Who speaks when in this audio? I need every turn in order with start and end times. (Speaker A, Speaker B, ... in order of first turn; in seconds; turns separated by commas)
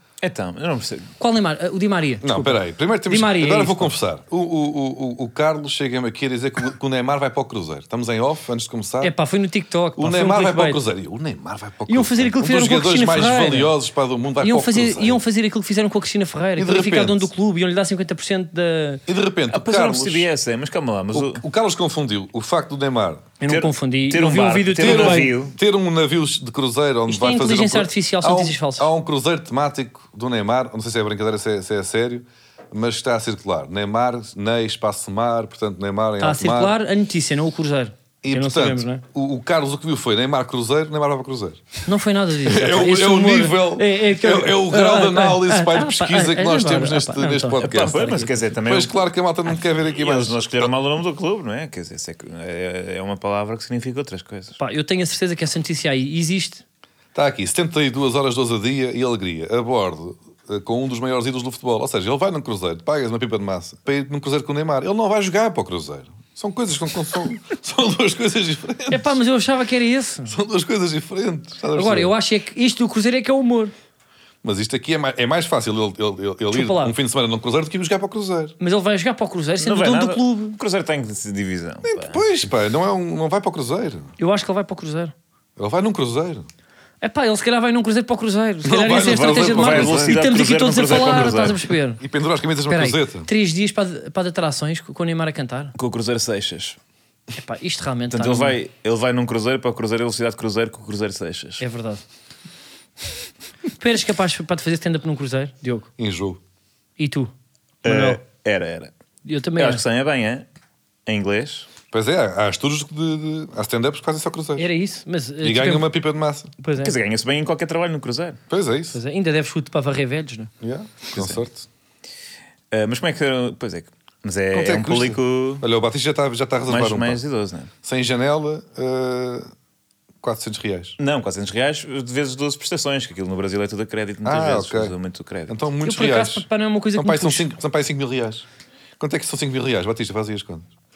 Speaker A: 0.2-1.1, Speaker B: 1.2-3.9, Speaker C: 2.2-9.1, Speaker B: 9.0-10.8, Speaker C: 10.0-15.2, Speaker B: 11.9-13.7, Speaker B: 14.4-19.0, Speaker C: 16.6-17.3, Speaker C: 19.1-20.3, Speaker A: 19.5-21.4, Speaker C: 21.1-23.3, Speaker B: 23.4-25.3, Speaker A: 23.4-25.6, Speaker C: 24.8-36.8, Speaker B: 27.1-28.9, Speaker B: 36.2-39.0, Speaker C: 38.2-41.7, Speaker B: 41.9-48.5, Speaker C: 42.5-48.0, Speaker A: 47.6-49.1, Speaker C: 48.6-50.7, Speaker A: 49.9-54.6, Speaker B: 54.6-56.6, Speaker C: 57.1-69.2, Speaker B: 68.9-70.3, Speaker C: 70.3-72.1, Speaker B: 71.7-73.7, Speaker C: 74.4-78.5, Speaker B: 76.5-76.9, Speaker B: 78.6-80.6, Speaker A: 79.6-82.2, Speaker C: 81.9-84.1, Speaker B: 84.2-85.1, Speaker C: 85.6-86.5, Speaker B: 87.0-92.0, Speaker C: 88.6-90.3, Speaker A: 88.9-91.6, Speaker C: 90.9-93.3, Speaker B: 92.7-95.7, Speaker A: 95.8-96.8, Speaker B: 97.4-98.6, Speaker A: 98.1-101.6, Speaker B: 101.6-102.0, Speaker B: 103.8-105.9, Speaker C: 106.0-106.4, Speaker B: 107.0-107.3, Speaker B: 107.8-108.2, Speaker A: 107.8-108.9, Speaker B: 109.2-109.8, Speaker A: 109.6-110.4, Speaker A: 111.1-111.7, Speaker C: 111.9-114.7, Speaker B: 114.6-115.9, Speaker C: 115.4-116.5, Speaker B: 116.6-116.9, Speaker A: 116.8-118.4, Speaker C: 118.5-119.0, Speaker B: 118.9-120.5, Speaker C: 120.6-121.7, Speaker A: 121.1-121.4, Speaker A: 122.7-125.6, Speaker C: 124.5-127.2, Speaker A: 126.7-127.7, Speaker C: 127.8-129.5, Speaker C: 130.2-130.9, Speaker A: 131.0-135.5, Speaker C: 134.2-134.9, Speaker C: 135.5-138.4, Speaker B: 135.8-137.5, Speaker C: 139.0-140.7